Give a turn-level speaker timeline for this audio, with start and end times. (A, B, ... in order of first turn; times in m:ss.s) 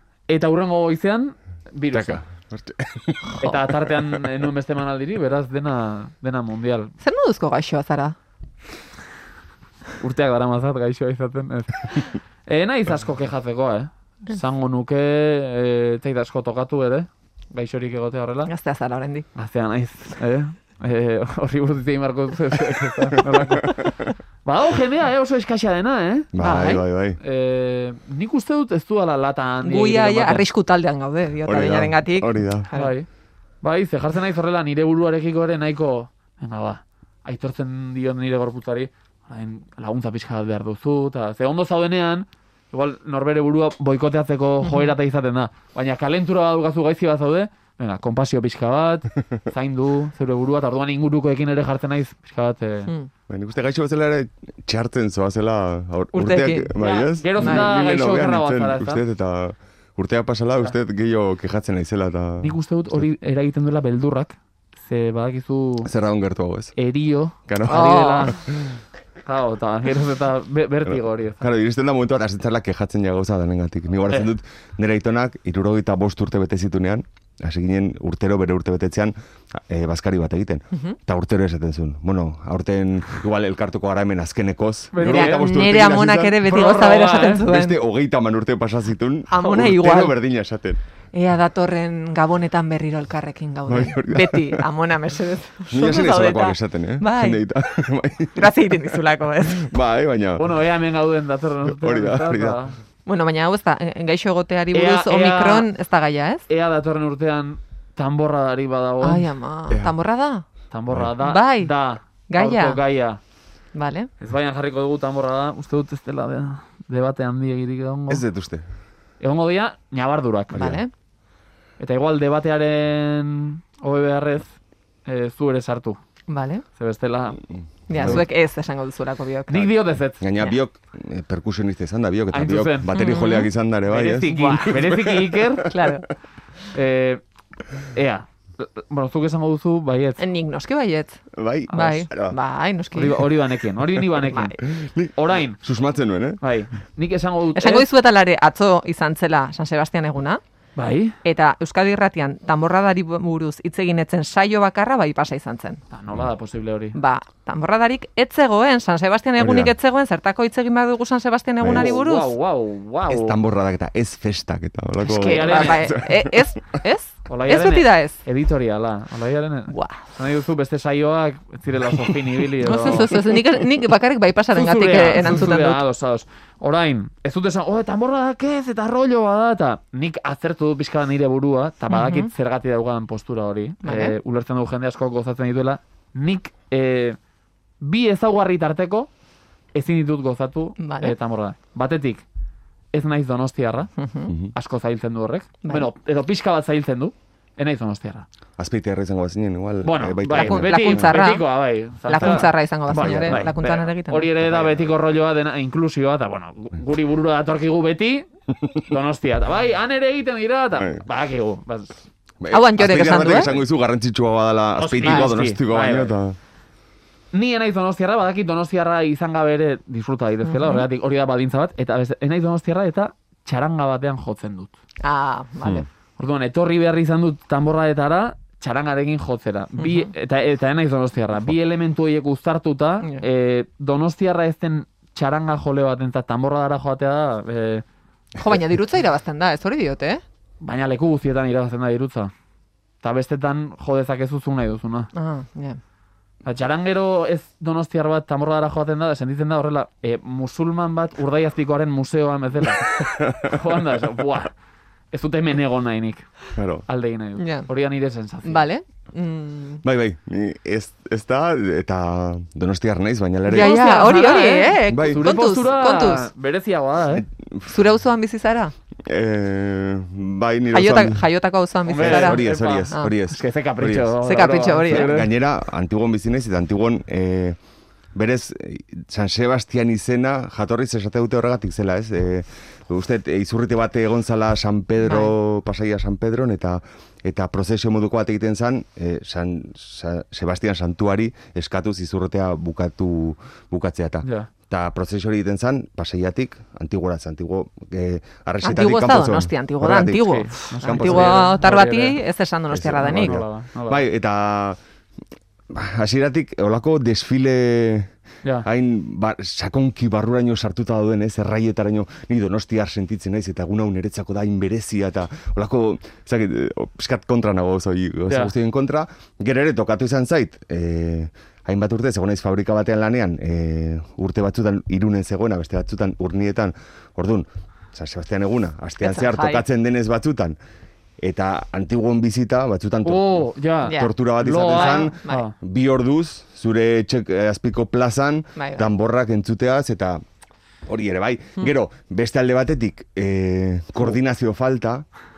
0:00.3-0:02.2 A
0:01.9-0:04.2 B
0:03.4-0:06.9 A
0:07.0-0:08.2 C
0:10.0-0:18.5 A
0:18.5-0:19.3 C
0:19.3-0:23.9 A
0:24.4-0:30.4 A
0:26.3-0:27.2 B
0:26.4-0:26.8 C
0:29.6-0:32.9 C
0:31.4-0:32.7 B
0:32.7-0:33.1 A
0:33.6-0:52.9 A
0:44.6-0:44.9 C
0:53.3-1:02.6 B
0:56.1-0:56.8 C
0:56.8-0:59.0 A
0:57.4-0:57.7 C
1:02.4-1:05.9 A
1:05.8-1:06.7 B
1:06.8-1:08.4 A
1:07.5-1:08.7 B
1:07.7-1:08.3 C
1:09.2-1:11.4 A
1:10.8-1:19.2 B
1:19.7-1:26.4 B
1:24.9-1:25.4 A
1:25.0-1:27.8 C
1:26.4-1:27.5 A
1:27.4-1:30.8 B
1:29.3-1:30.2 C
1:31.1-1:37.4 C
1:33.7-1:34.6 B
1:35.7-1:38.9 B
1:38.4-1:39.8 C
1:39.5-1:40.6 B
1:40.4-1:42.8 A
1:41.7-1:42.6 B
1:43.1-1:46.5 C
1:44.7-1:45.7 A
1:46.5-1:49.3 A
1:49.0-1:50.4 C
1:50.7-1:53.2 A
1:51.2-1:51.7 C
1:52.3-1:52.8 C
1:53.8-1:54.1 C
1:54.2-1:58.2 A
1:58.1-1:58.6 B
1:59.2-2:00.8 A
2:00.5-2:00.8 B
2:00.6-2:00.9 C
2:01.8-2:06.0 A
2:06.3-2:06.6 C
2:06.8-2:07.4 A
2:07.9-2:09.7 C
2:07.9-2:08.2 B
2:08.0-2:08.2 A
2:09.5-2:10.3 A
2:10.2-2:16.0 B
2:12.3-2:12.9 A
2:12.9-2:13.5 C
2:13.9-2:15.7 A
2:14.3-2:14.8 C
2:15.7-2:16.1 C
2:16.7-2:17.2 A
2:17.9-2:20.2 A
2:20.2-2:23.2 C
2:21.3-2:22.4 B
2:22.9-2:24.6 A
2:24.6-2:26.4 B
2:25.1-2:25.6 A
2:26.4-2:27.9 A
2:27.6-2:30.4 C
2:30.8-2:31.1 A
2:31.2-2:35.8 C
2:35.9-2:37.0 A
2:37.0-2:42.3 C
2:39.4-2:39.7 B
2:41.6-2:41.9 B
2:41.6-2:43.4 A
2:43.1-2:46.6 B
2:45.1-2:48.2 C
2:45.1-2:46.0 A
2:47.2-2:53.2 A
2:49.7-2:50.0 C
2:52.6-2:55.8 C
2:54.5-3:07.2 A
3:01.9-3:02.3 C
3:03.8-3:04.2 C
3:07.8-3:09.1 A
3:09.7-3:12.2 A
3:10.8-3:11.2 C
3:12.9-3:13.9 A
3:14.0-3:14.3 C
3:14.5-3:18.2 A
3:15.6-3:15.9 C
3:18.6-3:21.2 B
3:19.8-3:32.0 A
3:20.3-3:21.5 C
3:22.0-3:24.4 C
3:22.2-3:23.5 B
3:24.5-3:24.8 B
3:30.8-3:31.0 B
3:32.4-3:36.4 B
3:32.5-3:33.5 C
3:34.8-3:36.1 A
3:35.0-3:35.4 C
3:37.3-3:44.7 A
3:40.4-3:40.9 C
3:45.0-3:45.9 C
3:46.2-3:57.8 A
3:49.8-3:50.1 C
3:58.4-4:00.2 C
4:00.6-4:02.3 A
4:03.0-4:05.1 A
4:05.1-4:05.8 C
4:06.4-4:14.5 A
4:13.0-4:13.5 B
4:15.1-4:16.3 A
4:16.6-4:16.9 B
4:16.9-4:18.7 A
4:17.4-4:17.7 C
4:18.4-4:19.8 C
4:19.8-4:23.8 B
4:23.5-4:26.3 C
4:23.5-4:27.2 A
4:24.9-4:25.3 B
4:27.2-4:27.7 B
4:27.7-4:28.7 C
4:29.1-4:31.3 B
4:30.7-4:33.2 C
4:31.9-4:35.3 A
4:31.9-4:34.2 B
4:34.2-4:35.1 C
4:34.9-4:37.6 B
4:38.1-5:01.5 B
4:45.0-4:45.3 C
4:54.2-4:54.5 A
4:58.6-5:03.4 C
5:00.3-5:02.2 A
5:02.7-5:04.8 B
5:03.0-5:04.0 A
5:05.7-5:08.1 B
5:08.6-5:30.6 B
5:18.3-5:18.5 A
5:29.0-5:29.6 C
5:31.2-5:40.2 B
5:33.0-5:35.5 A
5:33.9-5:34.1 C
5:34.7-5:35.4 C
5:38.6-5:38.9 C
5:40.9-5:45.0 B